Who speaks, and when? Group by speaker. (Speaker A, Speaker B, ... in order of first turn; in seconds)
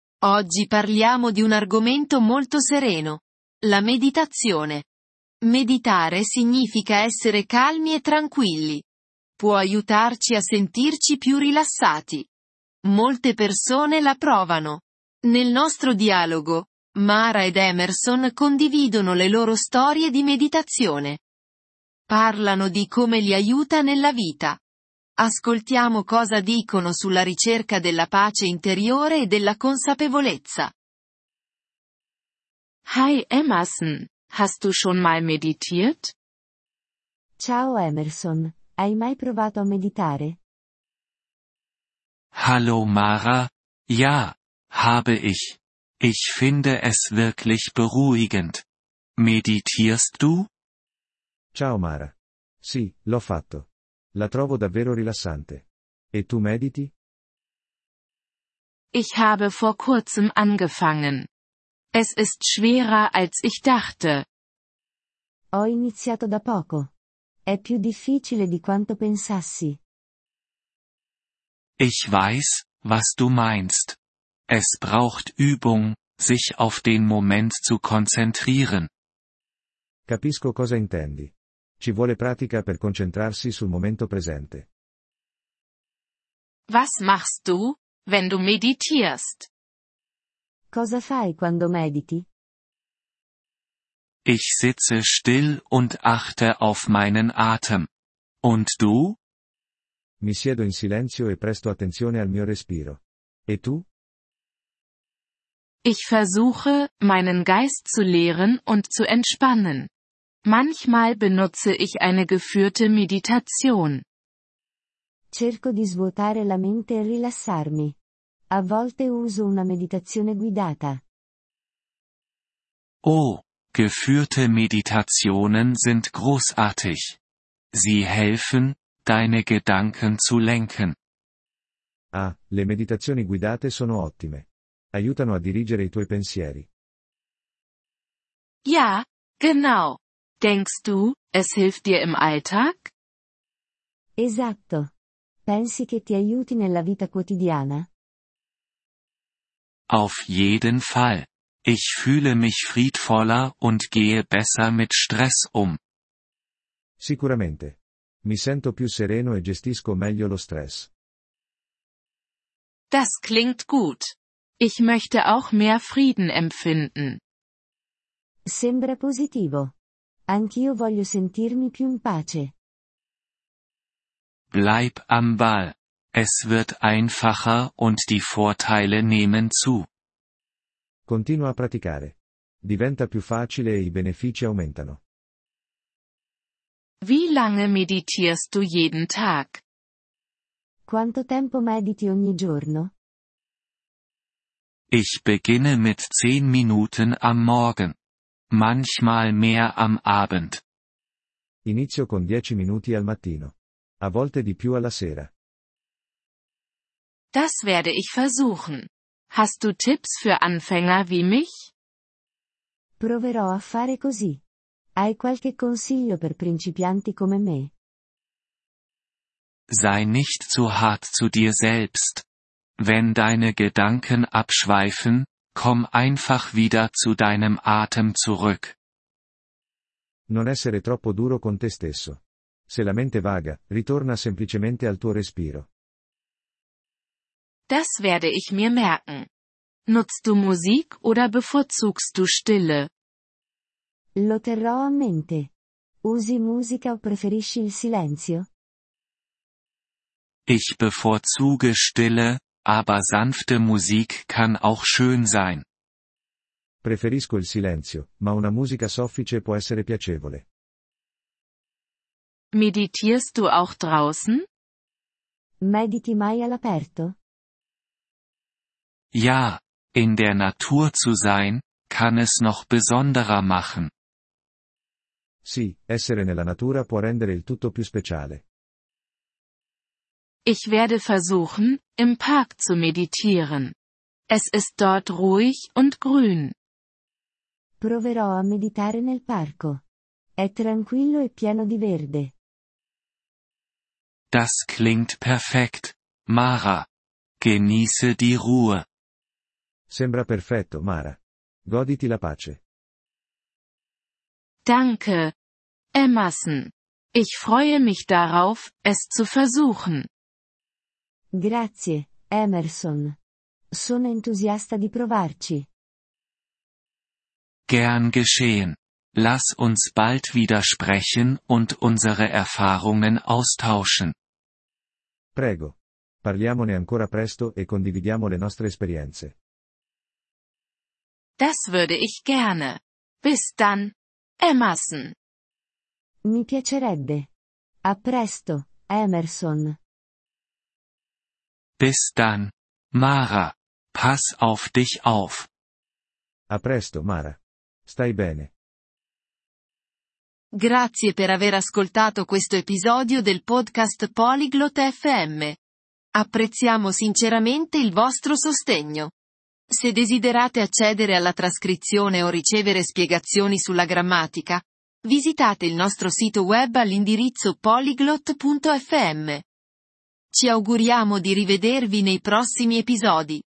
Speaker A: 0.2-4.9, 5.4-8.8, 9.4-12.3, 12.8-21.2, 22.1-24.6, 25.2-30.7, 350.5-355.6, 356.1-359.1, 359.7-369.4, 370.3-373.4
Speaker B: 32.9-36.1, 58.9-61.3, 61.9-64.2, 86.7-89.5, 105.8-109.9, 110.4-114.0, 138.6-142.9, 162.9-167.2, 187.0-189.6, 207.3-211.7, 237.7-239.3, 239.9-242.9, 262.5-264.4, 280.4-283.7, 284.3-286.5, 304.6-305.3, 305.9-310.1, 331.4-335.1
Speaker C: 37.4-40.4, 65.5-66.9, 67.5-69.8, 90.7-92.2, 115.3-118.0, 118.5-121.0, 144.2-144.9, 145.4-147.9, 168.4-169.7, 170.3-172.5, 190.9-192.9, 213.0-214.4, 215.0-217.7, 244.2-245.5, 246.0-248.5, 265.6-267.1, 287.8-289.8, 290.4-292.3, 311.3-313.2, 313.7-315.7, 336.2-337.3, 337.8-339.8
Speaker D: 42.3-48.6, 49.2-50.5, 71.8-74.0, 74.5-78.9, 94.2-97.9, 98.4-99.2, 123.0-127.2, 127.7-130.9, 149.9-155.8, 174.5-179.9, 194.9-197.9, 198.5-200.6, 219.7-222.2, 222.8-228.8, 250.5-255.6, 269.1-273.9, 294.3-296.9, 297.4-298.8, 317.7-324.1, 341.8-345.5
Speaker E: 51.5-56.9, 80.1-84.7, 100.2-103.8, 132.1-136.7, 157.0-160.9, 181.1-185.0, 201.6-205.3, 230.3-235.7, 256.8-260.4, 275.4-278.4, 299.9-302.6, 325.3-329.3, 346.5-348.5